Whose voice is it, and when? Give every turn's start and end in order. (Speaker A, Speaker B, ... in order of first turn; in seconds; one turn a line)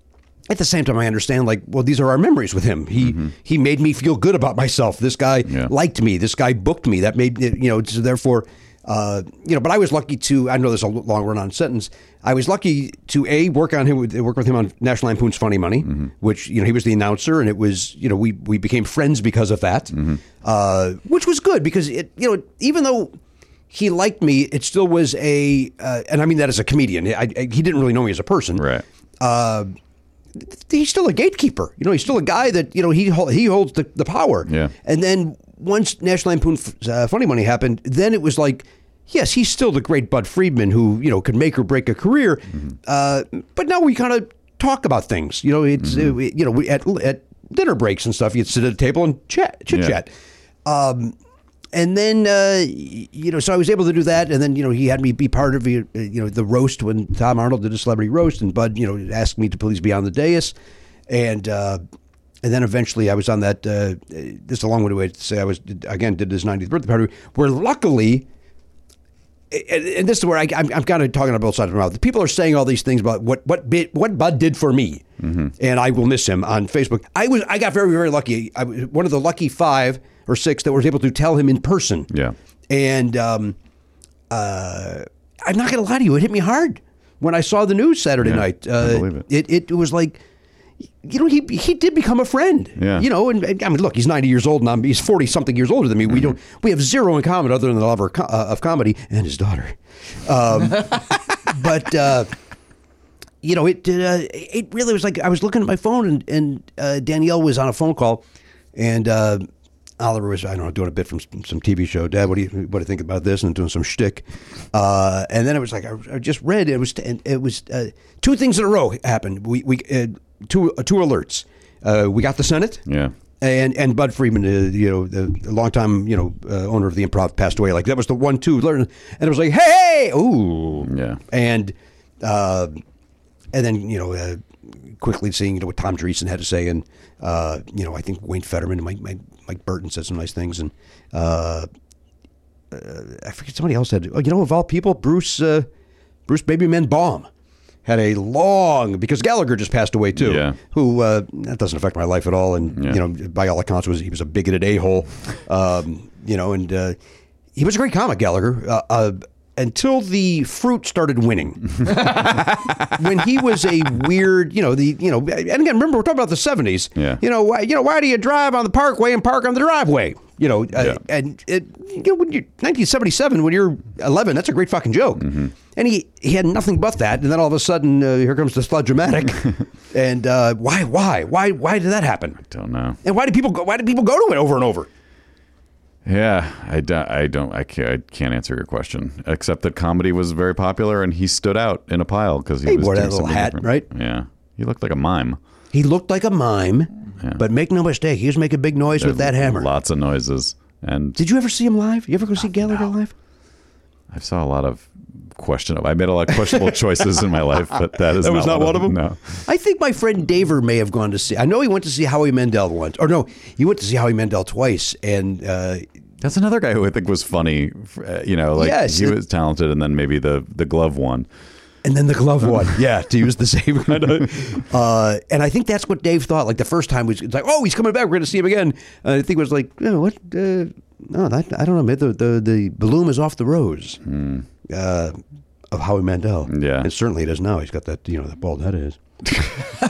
Speaker A: 0.5-23.1
Speaker A: 23.7-28.7
Speaker B: 28.6-28.8
Speaker A: 29.2-29.7
Speaker A: 30.4-50.1
Speaker B: 34.5-34.7
Speaker B: 49.7-50.0
Speaker A: 50.6-51.2
Speaker A: 51.7-60.5
Speaker A: 61.1-61.8
Speaker A: 62.4-68.3
Speaker A: 69.5-75.0
Speaker B: 75.2-75.5
Speaker A: 75.6-82.1
Speaker A: 82.7-83.6
Speaker A: 84.3-90.2
Speaker B: 88.2-89.2
Speaker A: 91.0-102.3
Speaker B: 92.8-93.1
Speaker A: 103.4-108.2
Speaker A: 108.8-109.5
Speaker A: 110.0-122.8
Speaker B: 122.9-123.1
Speaker A: 123.4-132.8
Speaker B: 130.9-131.2
Speaker A: 133.5-141.7
Speaker A: 142.7-145.7
Speaker A: 146.3-147.3
Speaker A: 147.8-157.0
Speaker B: 150.2-150.6
Speaker A: 157.6-182.4
Speaker B: 182.5-183.0
Speaker A: 183.0-184.9
Speaker B: 186.1-195.4
Speaker A: 192.7-193.9
Speaker A: 195.7-199.7
Speaker B: 199.0-201.2
Speaker A: 201.2-203.1
Speaker B: 204.1-209.4
Speaker A: 208.0-215.9
Speaker B: 216.2-221.3
Speaker A: 218.6-219.2
Speaker A: 221.8-234.0
Speaker B: 234.1-234.5
Speaker A: 234.7-235.2
Speaker A: 235.7-239.0
Speaker B: 236.5-236.9